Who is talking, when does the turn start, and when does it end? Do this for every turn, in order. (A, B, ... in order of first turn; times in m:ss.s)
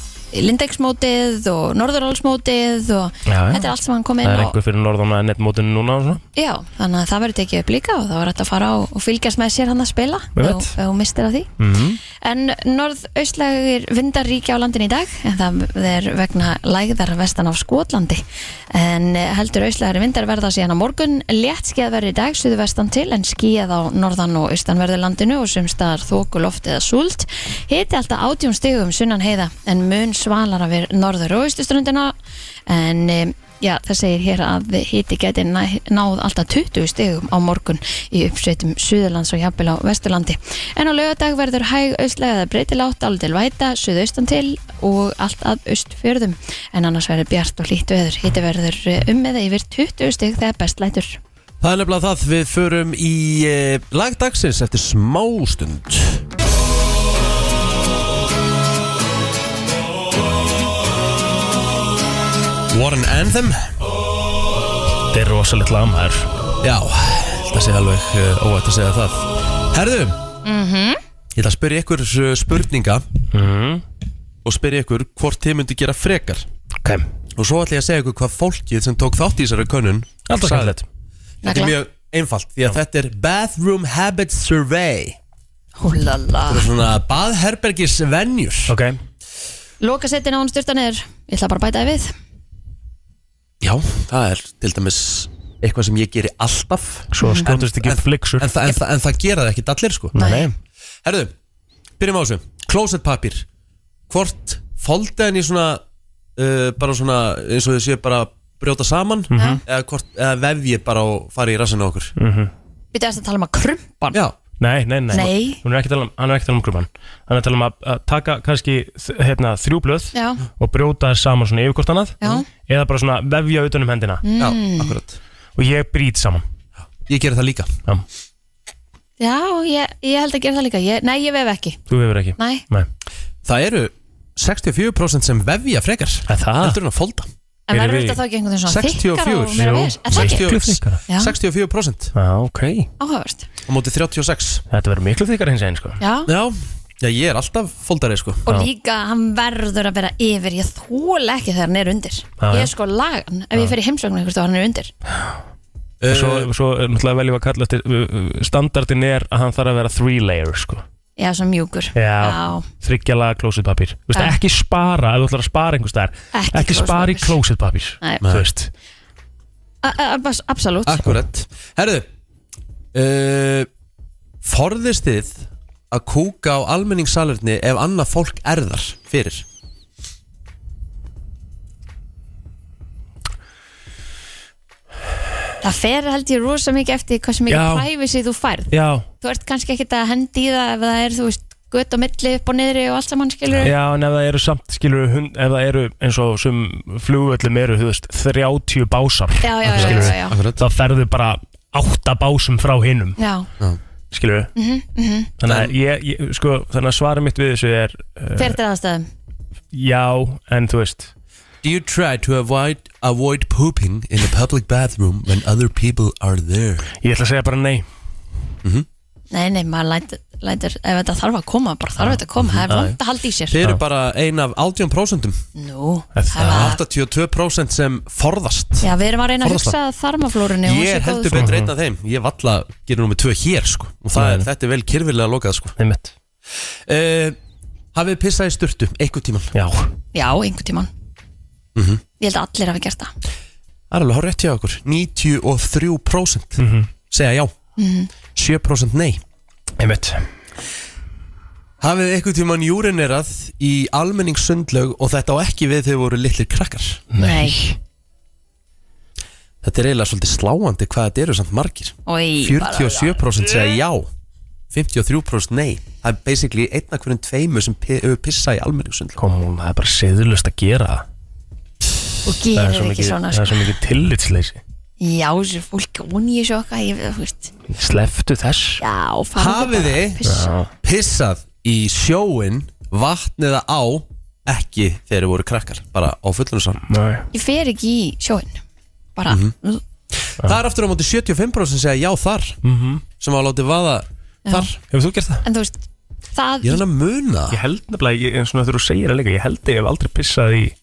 0:00.3-0:04.5 A
0:03.2-0:03.7 B
0:04.2-0:06.2 B
0:06.4-0:11.5 A
0:10.4-0:10.7 B
0:11.6-0:12.0 B
0:12.2-0:32.1 A
0:32.7-0:51.2 A
0:51.6-0:56.2 C
1:02.7-1:03.7 C
1:05.1-1:06.3 B
1:06.6-1:10.2 C
1:10.4-1:11.0 A
1:11.3-1:13.0 C
1:13.3-1:13.8 B
1:14.4-1:16.4 C
1:17.4-1:20.7 C
1:20.3-1:20.8 B
1:21.4-1:21.8 A
1:21.4-1:25.2 C
1:25.8-1:26.7 A
1:26.5-1:28.8 C
1:28.7-1:29.0 B
1:29.8-1:32.1 A
1:33.6-1:40.1 C
1:37.1-1:38.5 B
1:37.2-1:37.5 A
1:40.1-1:40.5 B
1:40.2-1:40.5 A
1:41.0-1:41.3 C
1:42.0-1:43.4 C
1:44.1-1:45.8 C
1:46.4-1:52.1 C
1:49.3-1:49.6 B
1:49.3-1:49.6 A
1:52.2-1:52.5 B
1:52.9-1:54.2 A
1:54.6-2:04.2 B
1:55.1-1:55.6 A
2:00.1-2:00.4 A
2:02.2-2:02.4 A
2:04.2-2:04.9 A
2:04.4-2:05.2 C
2:05.6-2:06.4 B
2:07.0-2:07.7 C
2:09.2-2:11.8 A
2:11.9-2:12.9 B
2:12.4-2:12.6 A
2:13.4-2:17.3 C
2:16.3-2:16.8 B
2:17.7-2:20.4 A
2:17.7-2:18.2 B
2:18.6-2:22.1 C
2:19.6-2:21.0 B
2:21.1-2:21.3 A
2:22.1-2:22.9 B
2:23.0-2:23.5 A
2:23.7-2:24.6 C
2:24.7-2:26.0 B
2:26.0-2:26.3 A
2:26.2-2:28.5 C
2:28.5-2:34.9 A
2:32.4-2:32.7 B
2:36.0-2:36.5 C
2:36.1-2:40.8 B
2:41.2-2:42.6 A
2:41.9-2:48.7 B
2:46.3-2:47.4 A
2:49.8-2:51.0 A
2:50.8-2:52.1 C
2:52.9-2:53.7 C
2:54.4-2:59.4 C
3:05.6-3:08.7 A
3:07.5-3:07.8 B
3:08.7-3:09.0 B
3:09.2-3:13.7 A
3:13.6-3:23.2 B
3:19.4-3:20.3 A
3:19.6-3:20.6 C
3:23.2-3:23.5 A
3:24.1-3:24.5 B
3:24.6-3:25.3 A
3:25.4-3:28.6 B
3:25.4-3:25.8 C
3:28.4-3:29.1 A
3:29.7-3:31.1 B
3:31.6-3:36.8 C
3:37.0-3:37.8 B
3:39.3-3:43.6 A
3:42.7-3:43.0 B
3:43.5-3:45.4 C
3:45.6-3:46.8 A
3:46.2-3:46.8 B
3:46.4-3:48.9 C
3:48.8-3:51.5 A
3:49.4-3:49.8 C
3:50.6-3:55.7 C
3:51.3-3:51.7 B
3:54.1-3:54.5 B
3:55.8-3:56.1 B
3:56.8-3:57.4 C
3:57.9-3:59.5 C
3:59.5-3:59.9 B
4:00.1-4:00.9 A
4:01.7-4:02.0 C
4:02.2-4:03.1 A
4:03.9-4:07.5 C
4:06.6-4:06.9 B
4:07.8-4:08.1 A
4:08.3-4:09.2 C
4:09.8-4:10.2 B
4:11.8-4:17.0 C
4:17.1-4:17.7 B
4:17.2-4:17.6 A
4:19.6-4:24.1 C
4:22.1-4:23.2 A
4:24.7-4:29.2 C
4:29.2-4:31.0 B
4:32.2-4:33.7 A
4:32.5-4:34.6 B
4:35.0-4:37.5 A
4:37.7-4:38.8 B
4:38.8-4:40.5 A
4:39.4-4:40.3 C
4:40.2-4:40.7 B
4:40.8-4:46.8 C
4:46.9-4:47.2 B
4:47.3-4:48.6 A
4:49.2-4:49.8 A
4:49.3-4:49.5 C
4:50.2-4:52.6 C
4:52.6-4:53.0 B
4:53.2-4:54.7 C
4:54.8-4:55.4 B
4:55.4-4:56.8 A
4:56.6-4:57.6 C
4:57.5-5:00.7 B